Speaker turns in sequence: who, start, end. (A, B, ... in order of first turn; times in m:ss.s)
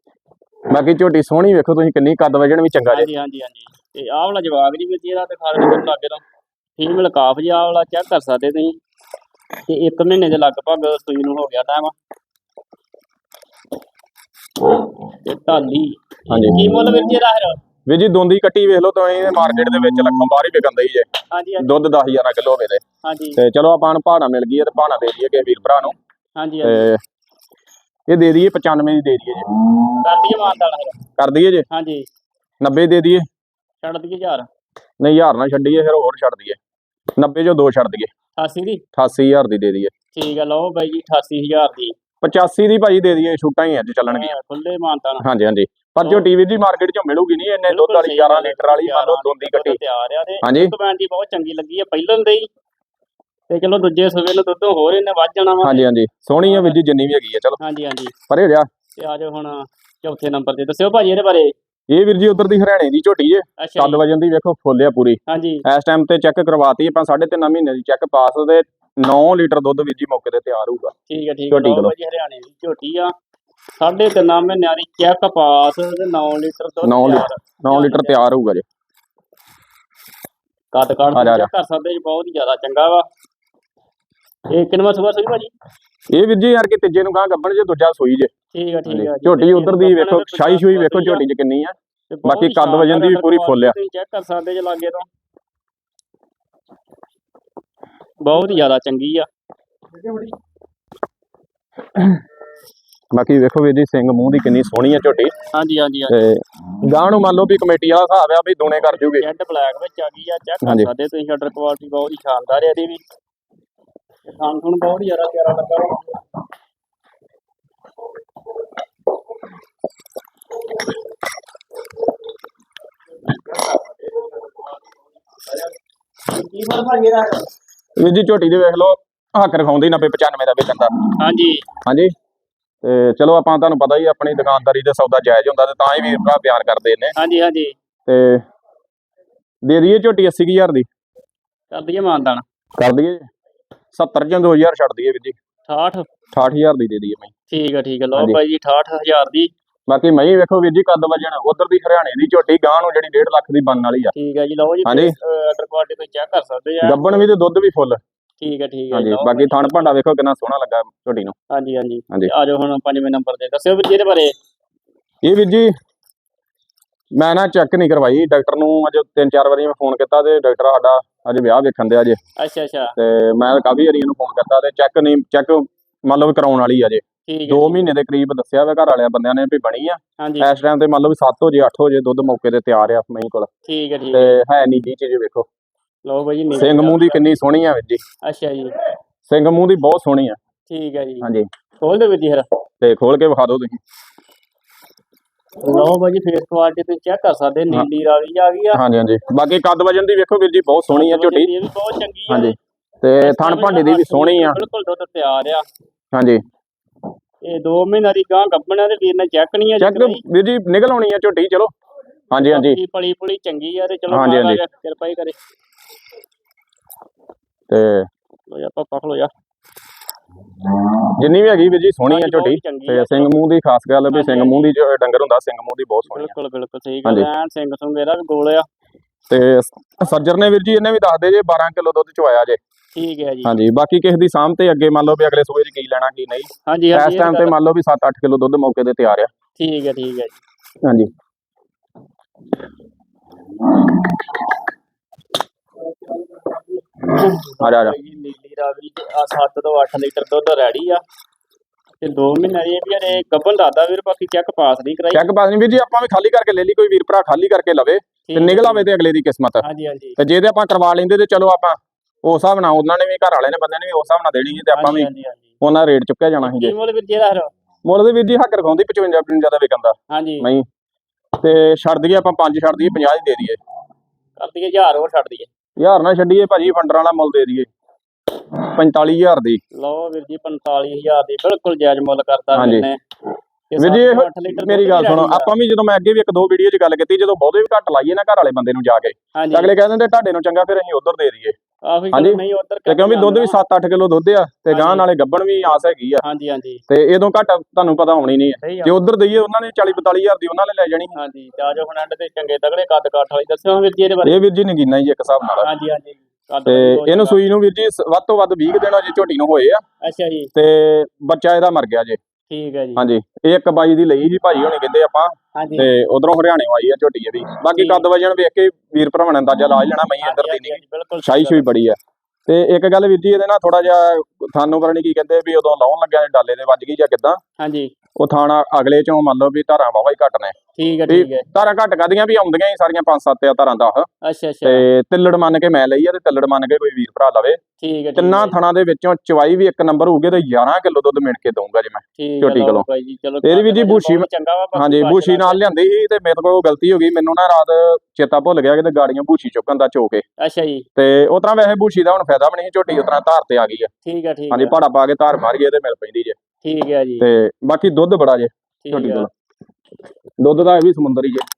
0:00.7-0:03.1 A
0:02.9-0:06.2 B
0:06.8-0:08.8 B
0:09.7-0:11.9 B
0:15.1-0:16.0 B
0:16.3-0:16.6 A
0:16.5-0:17.6 B
0:17.9-0:21.1 A
0:21.3-0:21.9 B
0:21.6-0:22.8 A
0:23.0-0:23.4 B
0:23.4-0:26.0 A
0:26.4-0:26.9 B
0:26.6-0:27.0 A
0:28.1-0:29.4 A
0:30.0-0:31.0 B
0:31.2-0:31.6 A
0:31.7-0:32.0 B
0:32.6-0:33.2 A
0:33.8-0:34.5 B
0:35.0-0:36.6 A
0:37.2-0:38.1 A
0:38.4-0:38.8 B
0:39.0-0:39.9 A
0:40.1-0:42.0 B
0:42.2-0:44.3 A
0:44.0-0:45.2 B
0:45.2-0:49.8 A
0:47.6-0:52.5 B
0:50.4-0:50.7 A
0:53.5-0:55.8 B
0:55.6-0:57.6 A
0:56.4-0:56.8 B
0:57.6-0:58.1 B
0:58.3-0:58.7 A
0:59.0-1:01.5 B
1:01.9-1:10.9 A
1:03.6-1:04.0 B
1:05.3-1:05.6 B
1:11.1-1:13.1 B
1:11.5-1:11.9 A
1:13.8-1:18.2 B
1:16.8-1:18.6 A
1:20.7-1:23.1 B
1:21.1-1:21.5 A
1:24.5-1:25.5 B
1:26.1-1:28.3 A
1:28.5-1:31.2 B
1:28.9-1:33.8 A
1:32.1-1:35.1 B
1:38.2-1:39.3 B
1:43.1-1:45.3 A
1:45.5-1:46.2 B
1:46.1-1:49.2 A
1:48.8-1:53.0 B
1:50.6-1:50.9 A
1:54.3-1:56.2 B
2:03.3-2:04.5 B
2:06.3-2:07.5 B
2:08.0-2:11.0 A
2:11.2-2:11.6 B
2:11.8-2:12.1 A
2:12.8-2:17.1 A
2:17.2-2:17.7 B
2:18.1-2:18.4 A
2:19.6-2:20.9 A
2:21.7-2:22.4 B
2:22.8-2:23.2 A
2:23.9-2:25.4 A
2:25.7-2:26.0 B
2:26.3-2:27.3 A
2:27.5-2:29.5 B
2:28.1-2:28.4 A
2:29.9-2:34.1 A
2:34.1-2:37.2 B
2:34.8-2:35.1 A
2:36.8-2:38.0 A
2:38.4-2:39.9 B
2:38.9-2:41.3 A
2:41.5-2:44.3 B
2:45.2-2:45.7 A
2:47.1-2:52.2 A
2:52.4-2:52.9 B
2:53.0-3:03.5 A
2:57.2-2:57.9 B
3:00.2-3:00.5 B
3:03.6-3:04.4 B
3:04.1-3:05.5 A
3:06.0-3:07.2 B
3:06.5-3:08.0 A
3:08.2-3:08.8 B
3:09.3-3:10.4 A
3:10.7-3:12.4 B
3:11.2-3:11.5 A
3:12.8-3:13.8 A
3:15.6-3:18.8 B
3:18.7-3:21.5 A
3:20.9-3:22.6 B
3:22.3-3:24.6 A
3:23.2-3:25.6 B
3:26.1-3:26.4 A
3:27.4-3:30.2 B
3:29.8-3:31.7 A
3:32.3-3:32.8 A
3:32.3-3:35.3 B
3:34.1-3:34.6 A
3:37.7-3:38.1 A
3:38.5-3:39.3 B
3:41.1-3:46.3 A
3:42.1-3:43.3 B
3:44.1-3:44.7 B
3:46.1-3:48.6 B
3:49.3-3:52.6 A
3:52.9-3:53.5 B
3:53.4-3:59.3 A
3:56.7-3:57.5 B
3:59.6-4:00.4 B
4:00.8-4:01.1 A
4:07.0-4:11.0 B
4:07.6-4:08.0 A
4:12.0-4:15.2 B
4:15.1-4:19.6 A
4:18.3-4:18.9 B
4:19.6-4:20.2 B
4:20.2-4:25.1 A
4:24.7-4:25.5 B
4:25.6-4:26.7 A
4:26.4-4:27.5 B
4:27.8-4:30.6 A
4:30.1-4:30.5 B
4:31.4-4:33.6 A
4:34.4-4:35.5 B
4:35.8-4:37.7 A
4:38.5-4:39.6 A
4:39.7-4:43.0 B
4:42.5-4:42.9 A
4:43.7-4:45.5 B
4:43.8-4:51.6 A
4:49.3-4:49.7 B
4:51.8-4:53.6 B
4:52.1-4:56.2 A
4:54.7-4:55.1 B
4:56.2-4:56.8 B
4:56.9-5:01.1 A
4:58.6-4:59.0 B
5:01.1-5:04.4 B
5:04.2-5:05.7 A
5:05.6-5:07.4 B
5:06.6-5:09.8 A
5:10.0-5:10.5 B
5:10.5-5:12.2 A
5:12.5-5:13.0 B
5:13.0-5:27.4 A
5:15.5-5:15.9 B
5:17.7-5:18.0 B
5:20.2-5:21.6 B
5:27.6-5:27.9 B
5:28.2-5:30.5 A
5:30.8-5:31.4 B
5:31.1-5:34.1 A
5:34.2-5:34.8 B
5:34.6-5:37.6 A
5:37.8-5:38.6 B
5:38.2-5:42.8 A
5:42.2-5:45.6 B
5:43.4-5:50.2 A
5:50.4-5:50.8 B
5:51.0-5:53.9 A
5:54.0-5:54.8 B
5:54.5-5:56.4 A
5:56.6-5:57.2 B
5:57.2-5:59.3 A
5:58.8-5:59.3 B
6:00.4-6:01.4 A